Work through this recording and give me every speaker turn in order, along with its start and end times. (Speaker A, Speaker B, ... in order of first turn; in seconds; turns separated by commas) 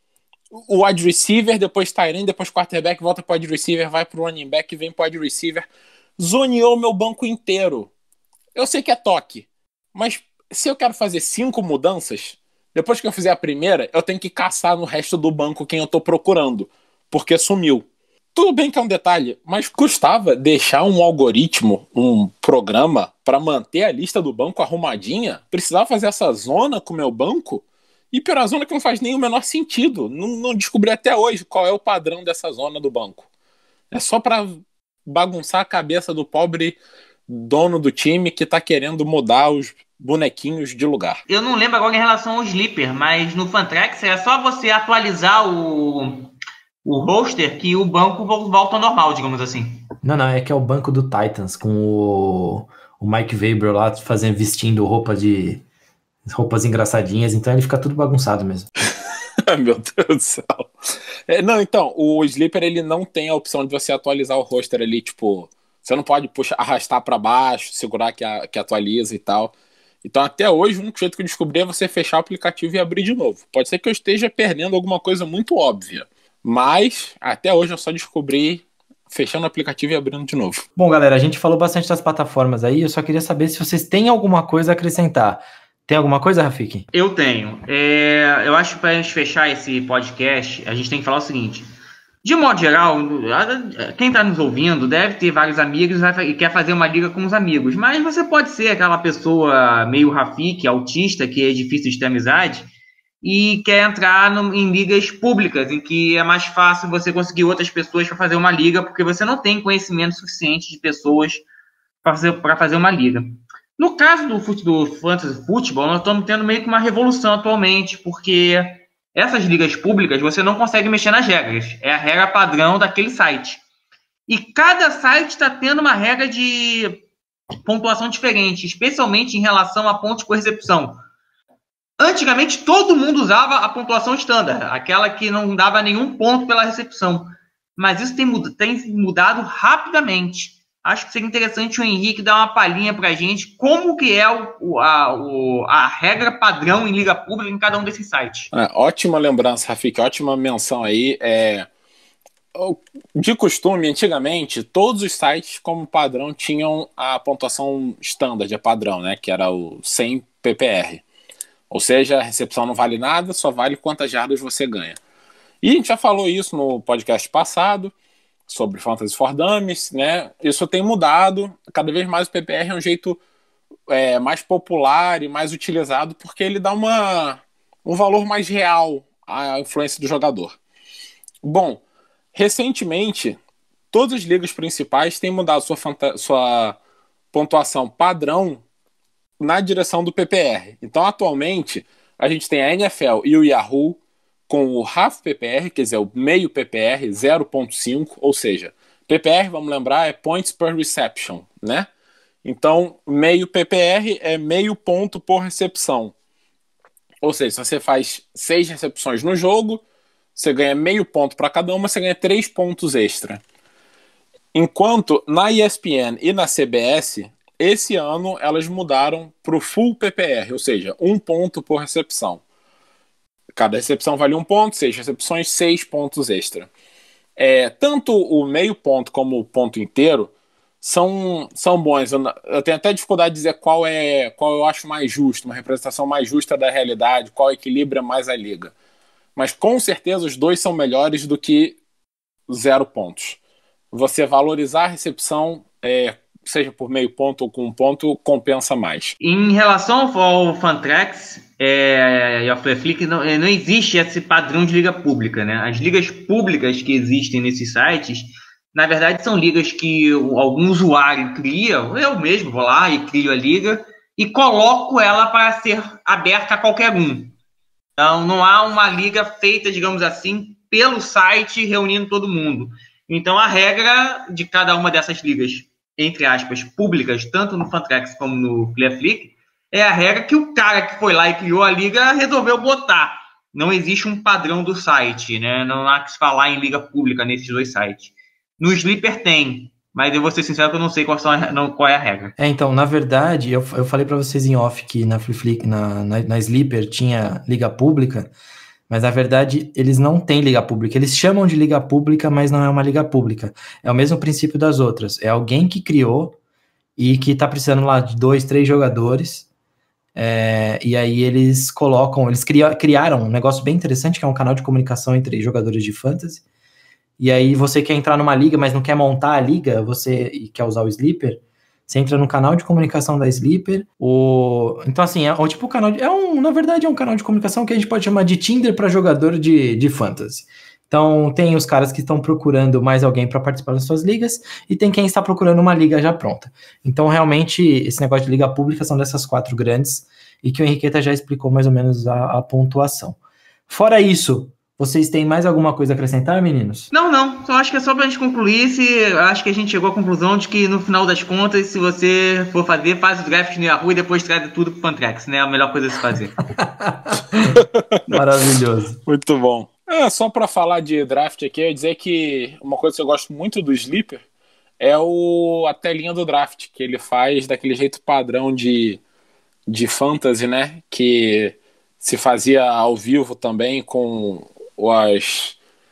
Speaker A: 0.5-5.7, Speaker A: 6.2-7.9, Speaker A: 8.5-33.2, Speaker A: 33.9-41.2, Speaker B: 41.3-46.3, Speaker B: 46.8-49.9, Speaker C: 50.0-55.6, Speaker C: 56.2-58.7, Speaker A: 59.4-60.7, Speaker A: 61.3-69.5, Speaker A: 70.0-80.6, Speaker C: 80.8-86.9, Speaker B: 86.9-91.6, Speaker B: 92.2-102.7, Speaker B: 103.2-111.4, Speaker B: 112.0-123.6, Speaker B: 124.3-127.0, Speaker B: 127.6-131.0, Speaker B: 132.0-148.5, Speaker A: 148.5-151.7, Speaker A: 152.5-161.0, Speaker A: 161.7-165.0, Speaker A: 165.6-167.9, Speaker A: 168.5-173.2, Speaker A: 173.9-180.5, Speaker A: 181.4-181.8, Speaker A: 182.3-183.4, Speaker A: 183.9-186.8, Speaker A: 187.3-188.6, Speaker A: 189.4-201.9, Speaker A: 202.4-206.1, Speaker A: 207.2-209.8, Speaker A: 210.4-213.4, Speaker A: 214.5-222.4, Speaker A: 223.5-226.7, Speaker A: 227.4-230.3, Speaker A: 230.8-238.7, Speaker A: 239.4-241.8, Speaker A: 242.5-243.4, Speaker A: 243.9-249.2, Speaker B: 249.2-267.3, Speaker B: 268.0-292.3, Speaker C: 292.4-298.3, Speaker C: 298.9-306.4, Speaker C: 307.0-309.5, Speaker C: 310.1-316.4, Speaker C: 317.2-346.9, Speaker B: 346.9-356.4, Speaker C: 356.6-357.5, Speaker A: 357.6-358.2, Speaker C: 358.1-359.0, Speaker A: 359.1-364.2, Speaker A: 364.8-369.0, Speaker A: 369.7-375.6